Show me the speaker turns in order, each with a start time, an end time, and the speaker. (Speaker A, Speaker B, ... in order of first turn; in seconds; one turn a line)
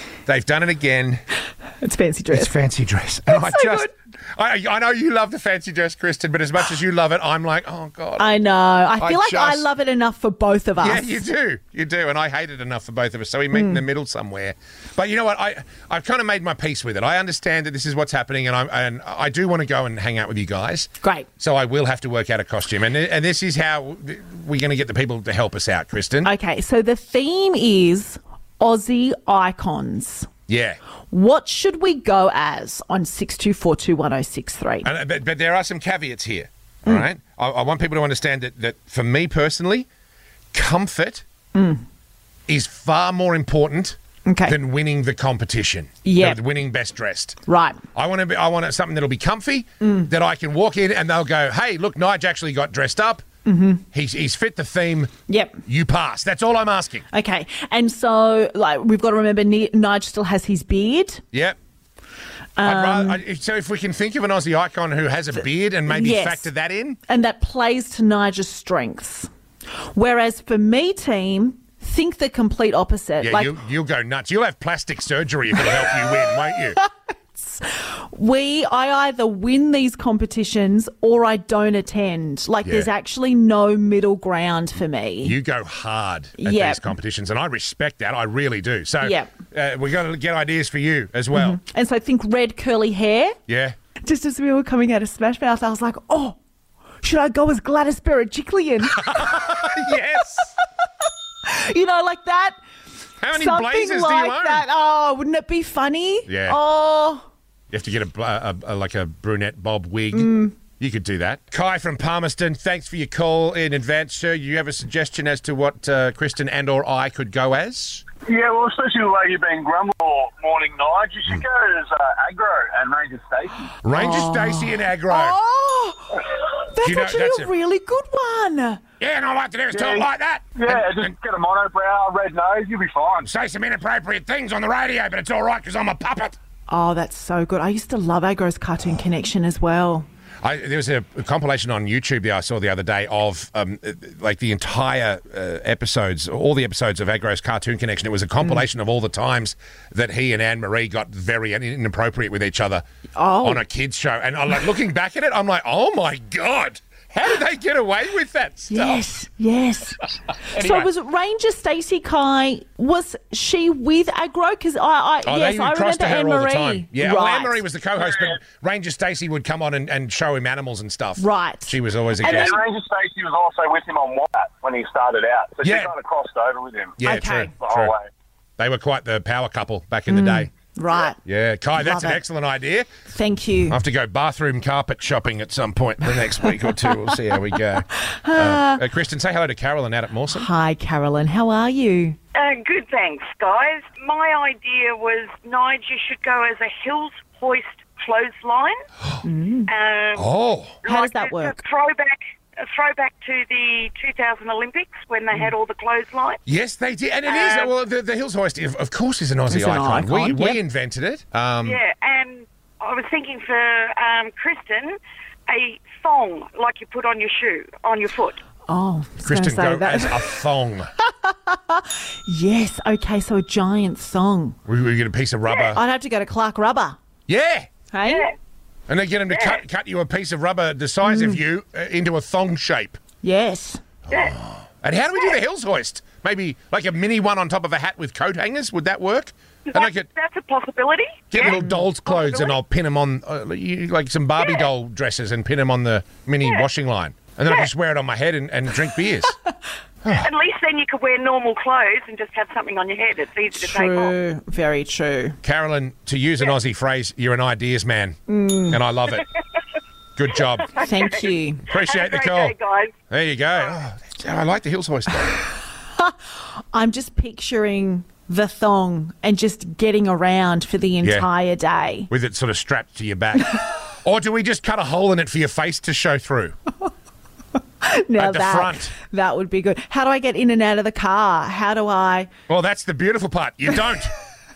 Speaker A: 0.2-1.2
Speaker B: 1.8-2.5
Speaker A: 2.3-8.3
Speaker B: 3.3-3.9
Speaker B: 8.2-11.2
Speaker A: 9.0-9.6
Speaker A: 10.8-26.3
Speaker B: 13.5-13.8
Speaker B: 21.0-21.3
Speaker B: 26.2-30.3
Speaker A: 30.5-30.8
Speaker B: 31.1-34.9
Speaker A: 34.8-39.9
Speaker A: 40.5-41.2
Speaker B: 41.5-41.8
Speaker A: 42.5-47.4
Speaker B: 44.2-44.5
Speaker B: 46.0-46.4
Speaker B: 47.5-47.8
Speaker A: 47.9-53.2
Speaker B: 49.8-50.1
Speaker B: 53.5-53.8
Speaker A: 53.9-55.1
Speaker B: 55.3-55.6
Speaker A: 55.6-57.0
Speaker B: 57.1-61.2
Speaker B: 62.6-63.2
Speaker A: 62.6-67.0
Speaker B: 65.9-66.5
Speaker B: 67.1-69.3
Speaker B: 69.9-73.5
Speaker A: 73.2-76.8
Speaker B: 75.6-85.3
Speaker A: 82.6-82.9
Speaker A: 85.2-91.6
Speaker B: 86.4-86.9
Speaker B: 89.0-89.3
Speaker B: 91.3-93.3
Speaker A: 93.5-93.8
Speaker B: 94.0-96.4
Speaker B: 97.0-100.0
Speaker A: 99.0-100.5
Speaker B: 101.4-102.6
Speaker A: 103.2-104.6
Speaker B: 103.3-107.2
Speaker A: 106.3-106.6
Speaker A: 107.7-118.0
Speaker B: 110.1-110.5
Speaker C: 118.2-123.8
Speaker A: 123.8-125.4
Speaker B: 123.9-128.8
Speaker A: 126.8-127.5
Speaker A: 129.0-131.1
Speaker C: 129.7-133.3
Speaker A: 133.2-136.4
Speaker B: 136.7-140.1
Speaker A: 140.4-152.8
Speaker B: 148.4-148.6
Speaker B: 153.2-153.6
Speaker A: 153.4-159.0
Speaker B: 158.7-167.6
Speaker A: 160.4-160.9
Speaker A: 165.2-172.6
Speaker B: 171.2-172.6
Speaker C: 172.2-177.0
Speaker A: 175.6-175.9
Speaker A: 177.0-177.9
Speaker B: 177.0-177.6
Speaker C: 177.6-178.1
Speaker A: 178.6-180.5
Speaker B: 180.1-181.2
Speaker A: 181.2-182.9
Speaker B: 181.7-182.2
Speaker B: 183.1-183.8
Speaker A: 183.7-190.5
Speaker B: 188.1-188.8
Speaker B: 190.3-192.2
Speaker D: 192.3-198.8
Speaker B: 199.2-199.7
Speaker D: 199.7-200.3
Speaker A: 200.2-200.8
Speaker D: 200.8-206.4
Speaker B: 200.8-201.6
Speaker A: 206.4-211.8
Speaker D: 207.2-207.7
Speaker B: 209.5-210.6
Speaker D: 211.6-218.4
Speaker B: 218.7-220.4
Speaker A: 219.2-220.9
Speaker B: 221.0-224.6
Speaker A: 224.7-225.8
Speaker B: 225.7-227.0
Speaker A: 227.3-227.7
Speaker B: 227.9-228.3
Speaker D: 228.0-228.3
Speaker A: 228.9-233.0
Speaker D: 229.3-229.6
Speaker B: 231.0-231.4
Speaker B: 233.2-233.8
Speaker A: 234.1-240.1
Speaker D: 239.7-242.6
Speaker A: 241.3-249.3
Speaker D: 244.4-244.6
Speaker D: 250.1-254.2
Speaker B: 253.5-255.4
Speaker A: 255.4-259.3
Speaker B: 258.3-258.8
Speaker A: 260.1-260.8
Speaker D: 260.6-262.9
Speaker B: 260.8-261.6
Speaker A: 261.7-262.5
Speaker A: 263.1-265.4
Speaker B: 266.7-272.1
Speaker A: 272.1-276.6
Speaker B: 277.8-282.3
Speaker A: 278.2-278.9
Speaker A: 282.5-284.1